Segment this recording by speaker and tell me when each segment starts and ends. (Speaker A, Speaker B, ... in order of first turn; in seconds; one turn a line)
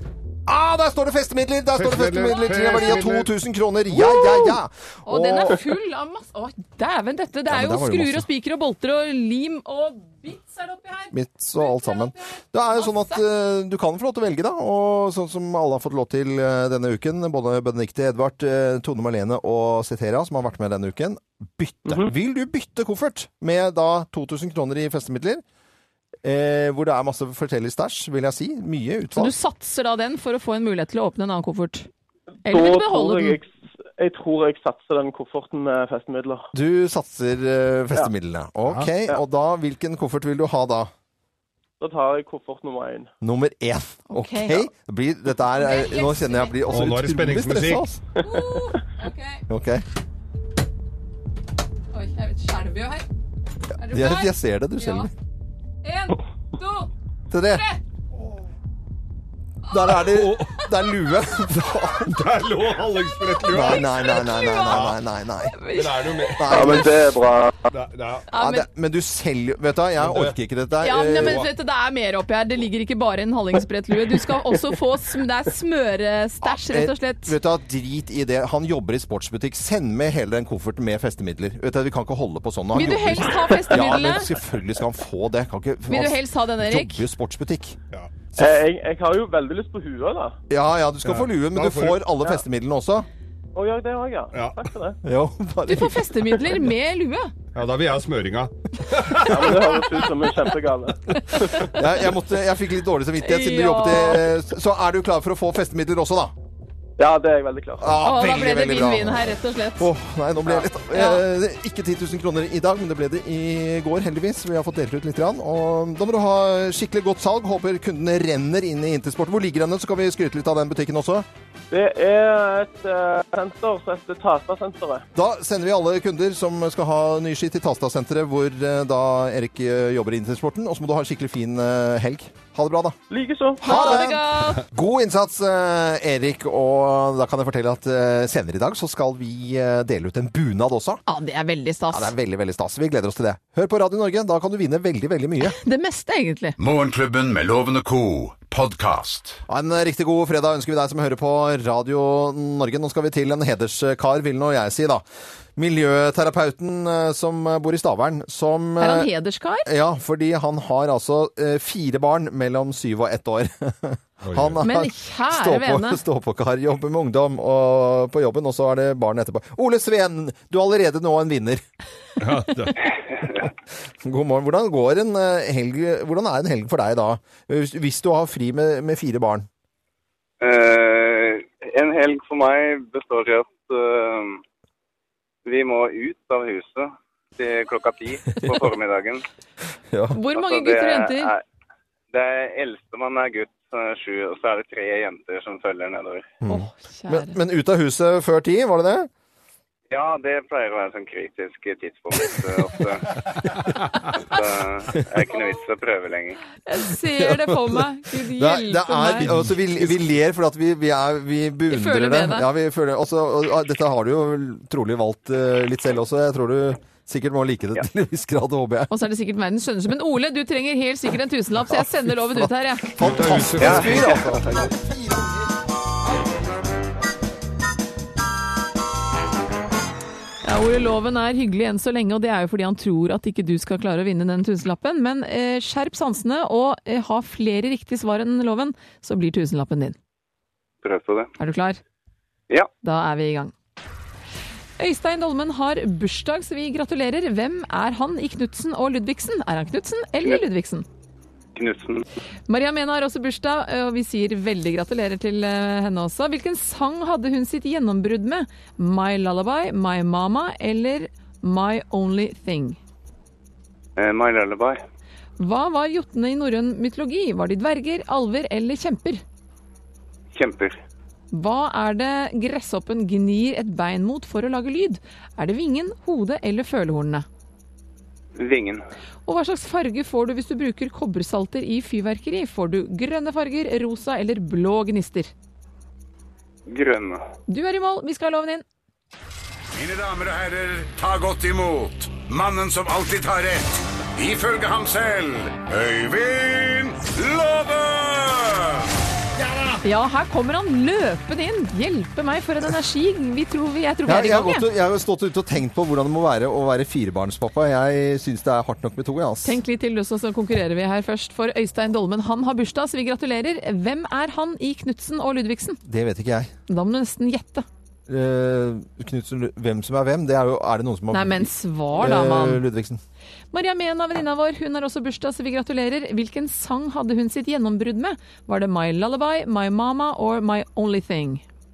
Speaker A: 0.5-5.7
Speaker B: 1.8-3.3
Speaker C: 2.2-2.7
Speaker C: 3.9-13.2
Speaker A: 7.5-8.3
Speaker A: 11.1-25.4
Speaker A: 26.2-29.3
Speaker C: 29.1-31.9
Speaker C: 32.5-33.4
Speaker D: 32.5-36.5
Speaker A: 36.5-40.9
Speaker D: 41.8-43.1
Speaker A: 43.2-48.0
Speaker C: 44.1-44.7
Speaker C: 45.6-46.6
Speaker B: 46.7-47.9
Speaker C: 48.2-49.4
Speaker A: 49.5-49.9
Speaker C: 51.9-53.1
Speaker C: 53.8-55.1
Speaker A: 53.9-55.1
Speaker C: 55.8-56.9
Speaker A: 57.3-57.6
Speaker C: 57.5-57.8
Speaker A: 59.7-62.2
Speaker C: 59.7-60.0
Speaker B: 60.0-60.6
Speaker B: 61.6-63.9
Speaker C: 63.4-64.8
Speaker A: 63.5-65.6
Speaker B: 64.7-65.0
Speaker C: 65.4-66.6
Speaker B: 65.7-67.0
Speaker A: 66.4-67.1
Speaker D: 66.5-67.6
Speaker B: 67.7-68.3
Speaker C: 68.3-68.7
Speaker A: 68.3-71.5
Speaker B: 70.0-70.4
Speaker C: 70.8-77.4
Speaker A: 76.4-87.8
Speaker C: 82.7-84.3
Speaker C: 85.9-87.0
Speaker D: 88.4-90.4
Speaker A: 90.5-93.1
Speaker B: 91.0-92.0
Speaker D: 93.5-95.0
Speaker B: 94.3-94.6
Speaker A: 95.0-96.5
Speaker C: 95.7-97.3
Speaker B: 97.5-100.0
Speaker D: 99.3-101.7
Speaker A: 101.6-106.3
Speaker C: 103.2-104.3
Speaker D: 107.0-108.0
Speaker A: 107.8-121.3
Speaker C: 108.0-109.9
Speaker C: 110.9-111.2
Speaker D: 121.7-125.0
Speaker A: 125.2-133.0
Speaker D: 133.1-133.6
Speaker A: 133.6-141.0
Speaker C: 133.6-134.6
Speaker C: 141.1-142.1
Speaker A: 141.9-145.6
Speaker C: 145.4-146.6
Speaker E: 146.6-149.4
Speaker A: 149.5-155.0
Speaker A: 155.6-159.1
Speaker C: 158.8-159.7
Speaker A: 159.7-171.6
Speaker B: 164.2-164.6
Speaker C: 164.6-166.0
Speaker B: 172.2-172.8
Speaker A: 174.0-179.5
Speaker F: 180.4-184.4
Speaker F: 185.4-189.2
Speaker A: 189.9-190.2
Speaker C: 190.1-191.3
Speaker F: 190.3-191.4
Speaker F: 192.1-196.3
Speaker A: 196.4-199.1
Speaker C: 196.5-197.4
Speaker F: 199.9-203.1
Speaker F: 204.2-206.4
Speaker C: 206.7-209.3
Speaker A: 207.2-218.9
Speaker B: 209.2-210.0
Speaker C: 211.7-212.5
Speaker C: 218.9-222.9
Speaker A: 221.7-225.5
Speaker B: 223.0-224.4
Speaker C: 230.4-240.0
Speaker F: 240.8-241.3
Speaker C: 241.4-241.8
Speaker C: 242.8-243.5
Speaker C: 244.8-250.8
Speaker F: 251.6-252.0
Speaker C: 252.5-262.8
Speaker F: 264.0-264.8
Speaker C: 265.4-269.2
Speaker F: 270.4-270.8
Speaker C: 271.3-277.3
Speaker F: 278.4-278.8
Speaker C: 279.3-285.3
Speaker F: 286.7-287.2
Speaker C: 287.5-288.6
Speaker G: 289.8-298.8
Speaker E: 291.3-291.7
Speaker C: 299.8-304.7
Speaker A: 304.1-309.6
Speaker C: 309.4-315.8
Speaker A: 315.9-316.5
Speaker C: 316.7-317.7
Speaker A: 318.1-323.0
Speaker C: 321.1-322.6
Speaker C: 323.5-331.4